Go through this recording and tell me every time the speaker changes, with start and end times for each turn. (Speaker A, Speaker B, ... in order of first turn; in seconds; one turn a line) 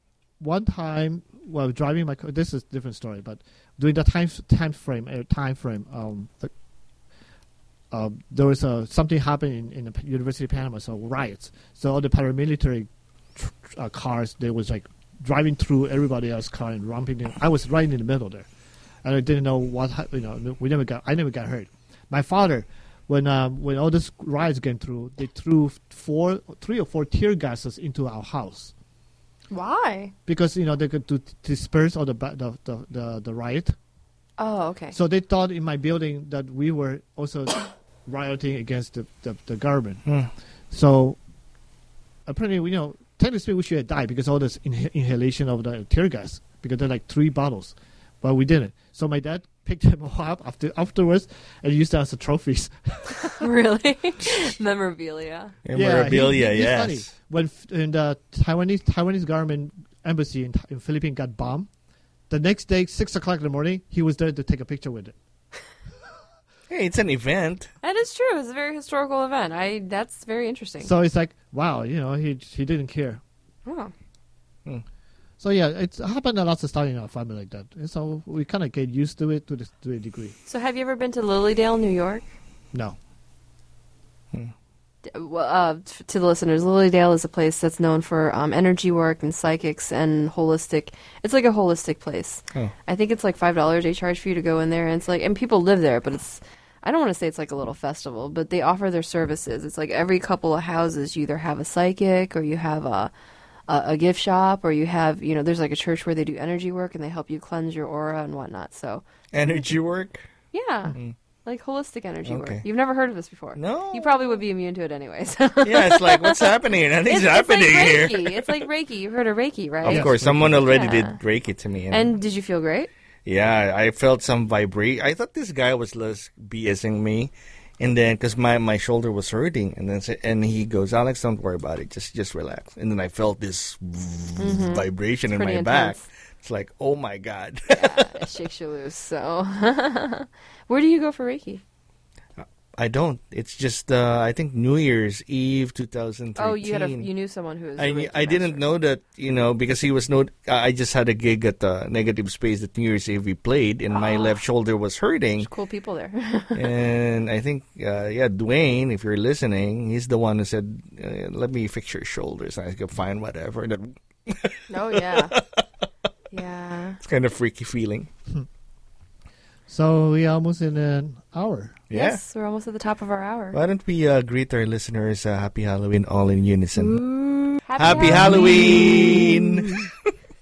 Speaker A: 0.4-6.5
Speaker A: 7.9-18.5
Speaker A: 19.0-28.7
Speaker B: 29.5-30.1
Speaker A: 30.2-33.7
Speaker B: 34.4-35.0
Speaker A: 34.9-40.0
Speaker A: 40.7-41.2
Speaker A: 42.2-53.5
Speaker B: 53.3-55.5
Speaker C: 55.6-57.1
Speaker A: 55.7-61.7
Speaker A: 62.3-65.2
Speaker C: 66.7-67.7
Speaker B: 67.8-70.9
Speaker A: 70.8-73.2
Speaker B: 73.7-73.9
Speaker A: 75.4-80.3
Speaker B: 80.5-82.3
Speaker B: 85.0-103.1
Speaker B: 103.7-109.0
Speaker C: 109.3-110.2
Speaker B: 110.5-116.5
Speaker C: 112.2-112.6
Speaker C: 113.5-114.3
Speaker C: 115.6-118.6
Speaker B: 117.0-121.2
Speaker C: 119.8-122.1
Speaker A: 119.8-120.7
Speaker B: 121.9-122.9
Speaker C: 123.2-138.3
Speaker B: 134.4-136.0
Speaker B: 137.7-141.6
Speaker C: 142.4-147.1
Speaker B: 146.3-148.6
Speaker C: 147.8-155.5
Speaker B: 153.9-154.4
Speaker B: 155.4-156.7
Speaker C: 156.5-165.6
Speaker B: 164.7-165.4
Speaker B: 166.3-167.0
Speaker C: 167.0-168.1
Speaker A: 169.7-171.8
Speaker C: 171.9-172.2
Speaker B: 171.9-173.6
Speaker C: 173.5-177.0
Speaker B: 176.8-179.4
Speaker C: 177.8-179.9